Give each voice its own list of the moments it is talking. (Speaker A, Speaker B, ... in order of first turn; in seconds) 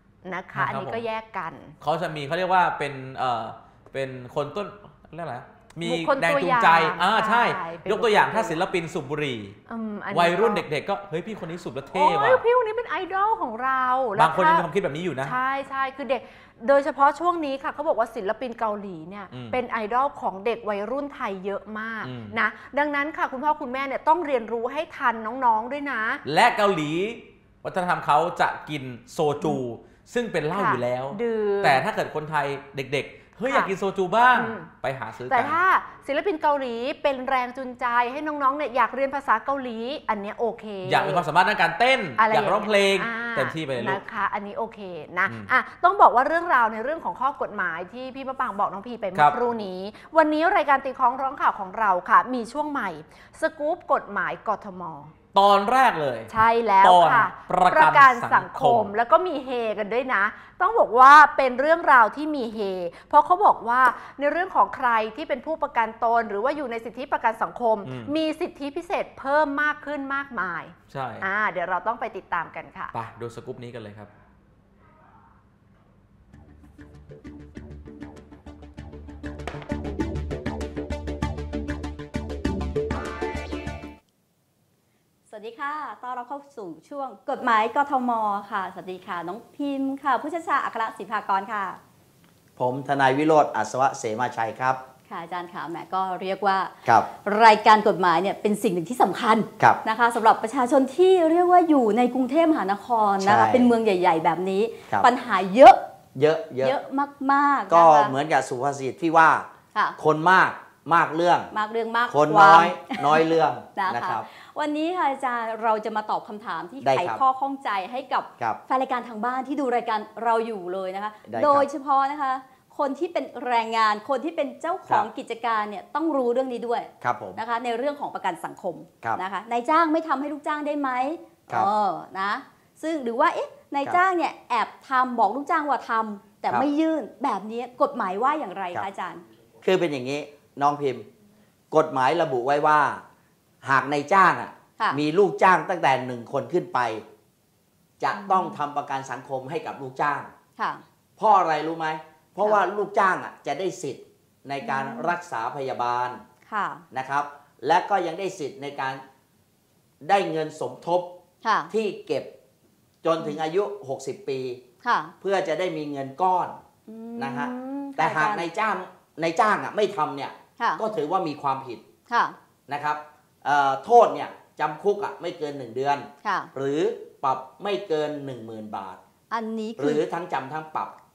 Speaker A: 0.2-1.7, 5.8-8.6, 9.7-10.6, 11.9-14.7, 15.2-26.2, 30.5-31.8, 33.5-33.7, 34.3-34.7, 35.3-41.2, 42.2-55.1, 56.3-72.9
Speaker B: 0.5-1.0, 1.8-9.6, 10.1-12.4, 14.2-15.3, 19.3-19.6, 22.0-22.4, 26.2-35.6, 40.8-44.0, 45.3-45.5, 55.3-58.9, 67.8-68.1, 70.9-71.3, 72.9-74.1
Speaker C: 85.3-91.8, 95.1-105.8, 106.6-108.1, 111.5-139.2, 148.1-148.6, 150.6-150.8, 154.6-155.2, 156.5-156.8, 161.4-161.7, 164.8-165.1, 166.9-168.4, 172.1-172.4, 176.2-176.5, 179.3-180.0
Speaker D: 92.6-94.8, 103.2-103.7, 106.1-106.8, 107.7-109.5, 110.0-111.5, 112.1-114.2, 116.8-117.2, 121.3-121.7, 127.0-127.4, 139.6-141.0, 141.7-143.0, 143.6-147.0, 148.0-150.3, 151.2-156.2, 156.9-159.0, 160.0-161.1, 161.7-162.3, 163.0-164.6, 165.2-166.6, 167.2-171.8, 172.7-179.0, 179.8-180.9